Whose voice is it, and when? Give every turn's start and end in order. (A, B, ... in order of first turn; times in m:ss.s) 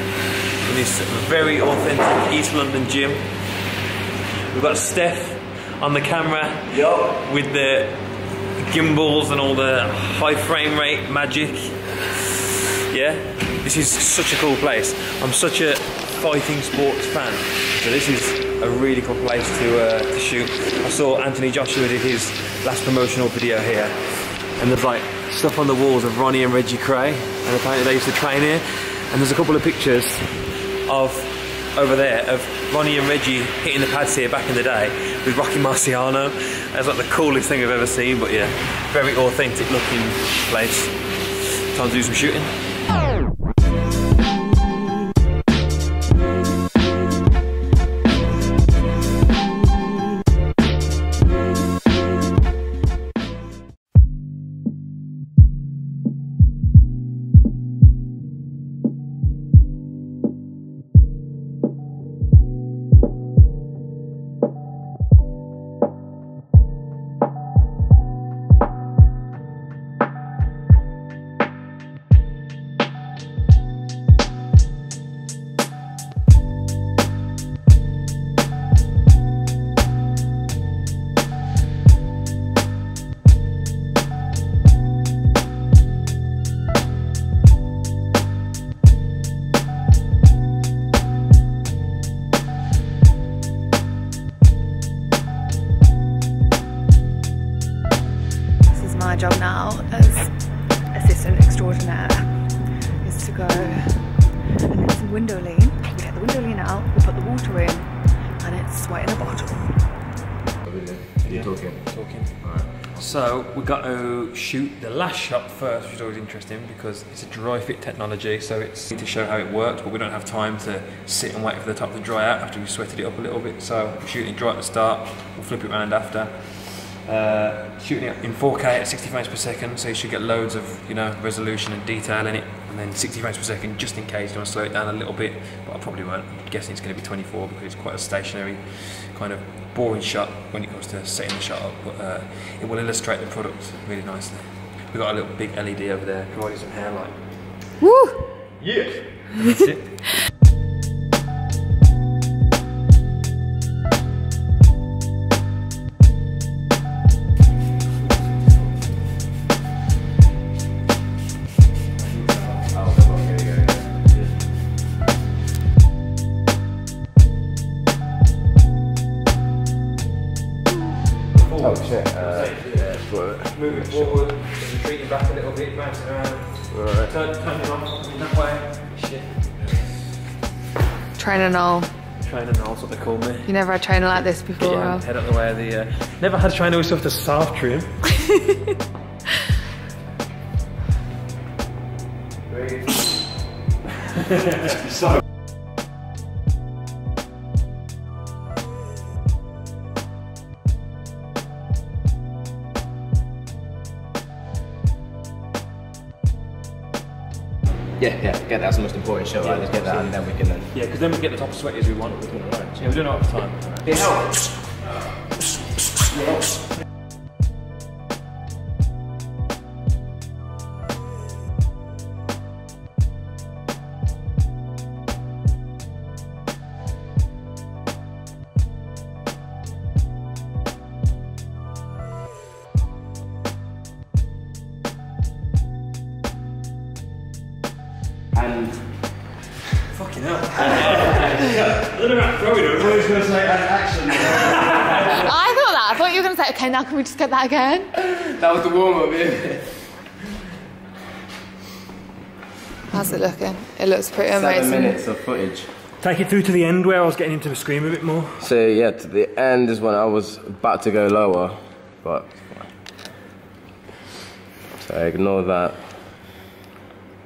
0:00.6-0:03.3 A
0:04.5-0:08.0 A
0:06.8-0:07.0 B
0:08.6-0:24.0 A
0:24.6-0:42.5 A
1:38.7-1:40.3 C
1:40.9-1:42.3 C
1:43.0-1:49.8 C
1:50.6-1:53.1 B
1:51.2-2:27.2 A
2:27.8-2:28.2 C
2:28.6-2:29.0 B
2:29.3-2:30.0 A
2:42.0-2:42.6 A
2:42.7-2:44.0 B
2:51.3-2:59.7 A
2:51.6-2:54.2 B
2:56.7-2:57.1 B
3:01.2-3:01.9 C
3:02.2-3:03.5 A
3:03.4-3:05.0 C
3:04.1-3:08.1 A
3:12.5-3:13.0 B
3:14.5-3:14.8 A
3:28.0-3:30.7 B
3:29.4-3:30.2 A
3:30.7-3:32.2 A
3:32.1-3:32.9 B
3:32.8-3:34.1 A
3:33.8-3:34.3 B
3:36.1-3:36.4 B
3:58.3-3:59.0 B
3:59.9-4:05.3 A
4:03.2-4:05.1 B
4:05.2-4:07.9 C
4:08.0-4:09.8 B
4:12.9-4:15.0 C
4:14.2-4:15.7 B
4:16.0-4:18.4 A
4:18.4-4:22.7 B
4:24.8-4:25.8 B